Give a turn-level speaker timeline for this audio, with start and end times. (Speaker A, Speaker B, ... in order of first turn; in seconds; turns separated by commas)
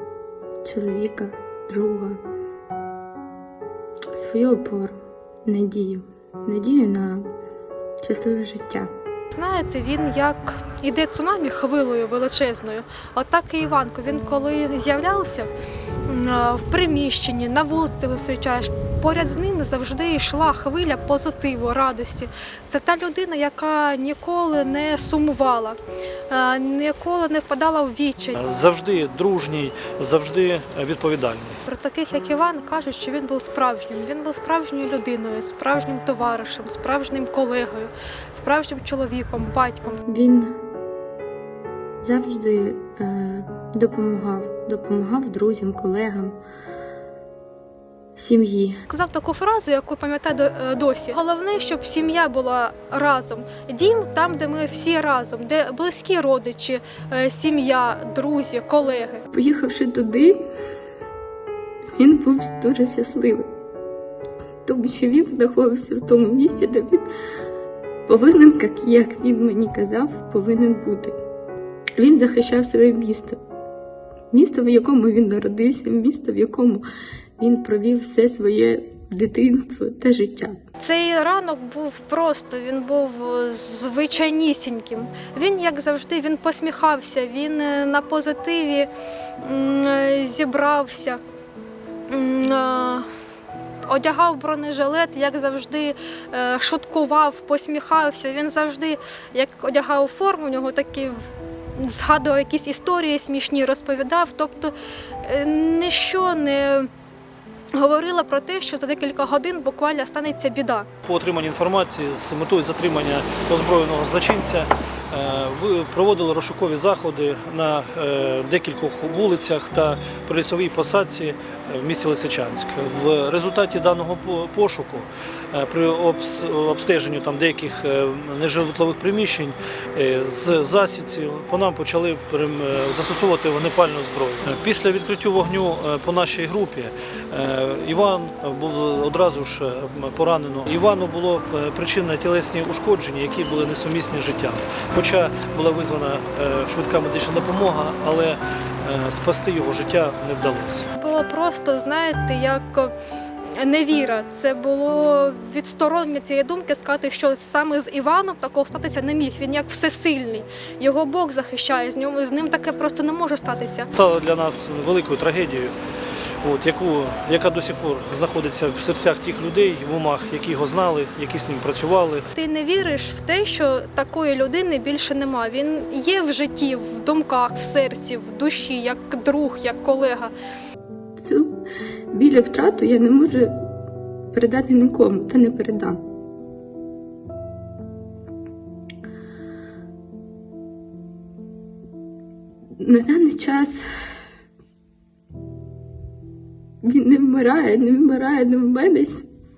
Speaker A: 0.6-2.2, Speaker A: 4.1-7.3, Speaker A: 8.0-8.9, Speaker B: 9.3-15.5, Speaker B: 16.0-25.8, Speaker B: 26.3-28.4, Speaker C: 28.4-31.6, Speaker B: 31.6-40.0, Speaker A: 40.0-40.6, Speaker A: 42.0-46.4, Speaker A: 48.1-48.8, Speaker B: 48.9-59.2, Speaker A: 59.3-60.4, Speaker A: 62.0-63.5, Speaker A: 64.6-67.0, Speaker A: 68.1-71.2, Speaker A: 72.0-73.4, Speaker A: 74.3-76.8, Speaker A: 77.4-80.6, Speaker B: 80.8-88.9, Speaker B: 89.4-91.2, Speaker B: 92.1-93.0, Speaker B: 93.8-101.2, Speaker B: 101.8-106.9, Speaker B: 107.7-110.9, Speaker C: 111.0-150.9, Speaker B: 150.9-152.9, Speaker B: 153.5-163.9, Speaker C: 163.9-165.7, Speaker C: 166.4-172.2, Speaker B: 172.3-180.3, Speaker A: 181.2-181.6, Speaker A: 182.1-183.5, Speaker A: 184.3-186.0, Speaker A: 192.8-193.8, Speaker A: 196.8-199.3